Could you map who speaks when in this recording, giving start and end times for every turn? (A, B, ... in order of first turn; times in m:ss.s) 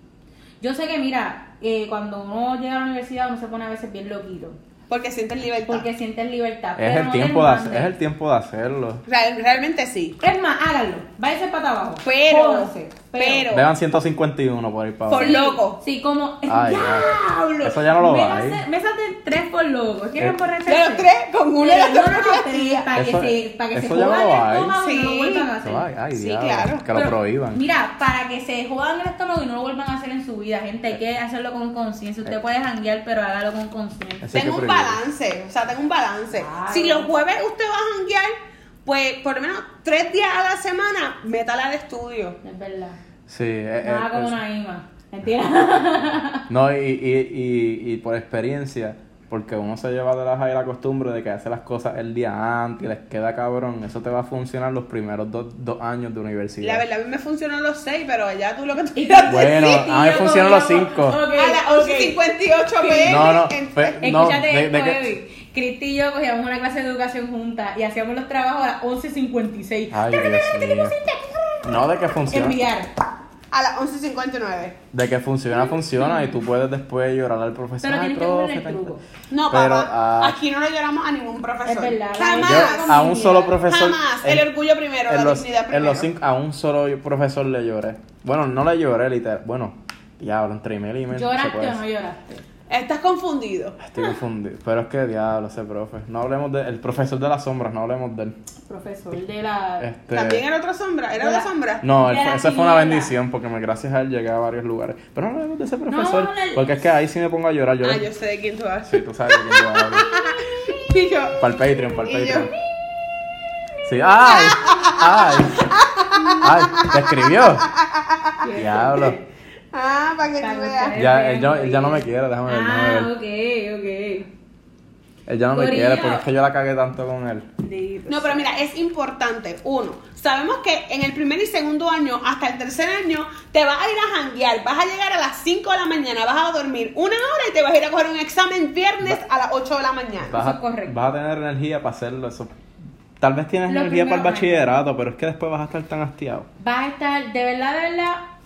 0:00.6-0:04.6 A
0:04.9-0:05.9 B
0:05.7-0:07.9 A
0:06.8-0:09.0 C
0:09.1-0:10.2 B
0:10.2-0:13.5 A
0:12.0-0:13.7 B
0:13.5-0:15.4 C
0:15.1-0:15.8 B
0:15.1-0:21.1 A
0:16.5-0:17.1 C
0:17.6-0:18.6 C
0:20.7-0:22.9 B
0:21.6-0:25.9 A
0:23.0-0:24.8 C
0:24.8-0:25.5 B
0:25.6-0:27.6 C
0:26.1-0:26.9 B
0:27.0-0:34.4 A
0:34.2-0:35.0 C
0:34.3-0:42.4 B
0:36.3-0:37.1 A
0:42.4-0:43.0 A
0:43.3-0:44.4 C
0:43.8-0:46.5 A
0:46.5-0:56.8 C
0:56.6-1:00.4 B
0:59.0-1:02.2 A
0:59.3-1:01.2 C
1:01.3-1:04.1 B
1:02.8-1:03.4 A
1:03.0-1:05.1 C
1:04.0-1:11.7 A
1:09.9-1:11.0 C
1:11.6-1:12.6 C
1:12.3-1:12.9 A
1:13.5-1:14.8 B
1:14.9-1:19.0 C
1:16.0-1:16.3 A
1:17.8-1:19.0 A
1:19.3-1:23.0 B
1:19.5-1:20.4 C
1:21.6-1:23.6 A
1:22.4-1:24.5 C
1:23.6-1:26.1 B
1:25.1-1:31.8 C
1:31.1-1:32.4 A
1:32.7-1:34.0 B
1:33.8-1:38.4 C
1:38.7-1:39.9 A
1:39.8-1:40.4 C
1:40.1-1:41.8 B
1:41.2-1:43.1 A
1:41.8-1:48.0 C
1:45.9-1:46.8 A
1:47.8-1:52.5 B
1:48.9-1:50.2 C
1:50.1-1:50.9 A
1:51.4-1:52.5 C
1:53.8-1:55.8 C
1:54.3-1:55.0 B
1:55.7-1:58.5 B
1:56.2-1:56.4 A
1:56.4-1:57.7 C
1:58.4-1:59.3 A
1:58.5-1:59.2 C
1:59.7-2:01.0 B
2:00.4-2:04.3 A
2:00.9-2:03.1 C
2:05.3-2:07.5 C
2:05.5-2:06.3 A
2:07.6-2:08.5 A
2:08.1-2:20.4 B
2:20.3-2:22.6 C
2:20.3-2:21.0 A
2:23.2-2:26.5 C
2:23.7-2:24.8 A
2:26.6-2:28.2 A